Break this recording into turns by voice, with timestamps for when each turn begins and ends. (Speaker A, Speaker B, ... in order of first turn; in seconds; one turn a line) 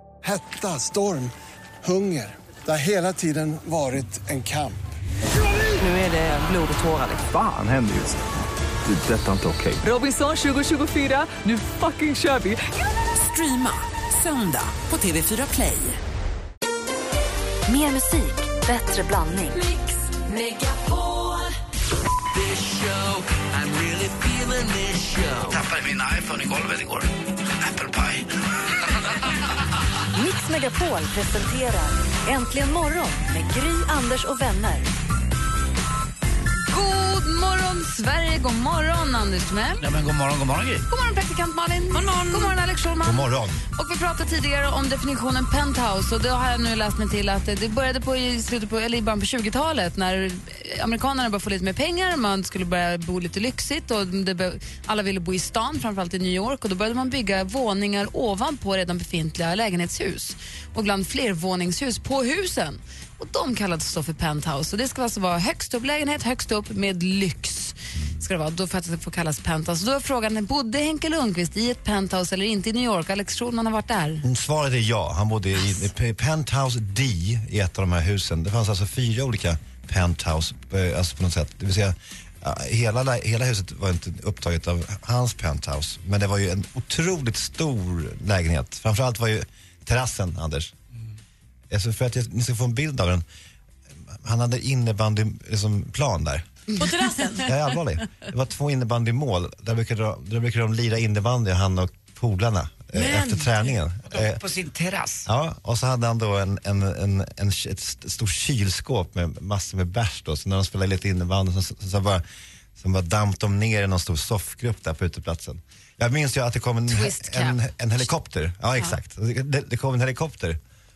Speaker A: 0.2-4.8
Speaker B: 5.8-7.2
Speaker C: 7.0-8.2
Speaker C: 8.8-9.8
Speaker B: 9.8-12.6
Speaker B: 13.1-16.0
Speaker D: 17.7-19.6
Speaker D: 20.4-21.3
Speaker C: 22.6-23.0
Speaker C: 23.6-25.4
Speaker E: 25.5-29.3
Speaker D: 30.1-34.9
Speaker F: 36.7-39.8
Speaker E: 39.8-40.8
Speaker F: 40.9-74.2
Speaker G: 41.9-42.6
Speaker H: 43.0-43.6
Speaker H: 74.2-90.7
Speaker H: 91.7-93.2
Speaker H: 94.2-96.5
Speaker G: 96.8-97.5
Speaker H: 97.4-104.4
Speaker G: 102.9-103.7
Speaker E: 104.1-105.3
Speaker H: 105.3-112.2
Speaker H: 112.8-120.6
Speaker F: 116.9-117.6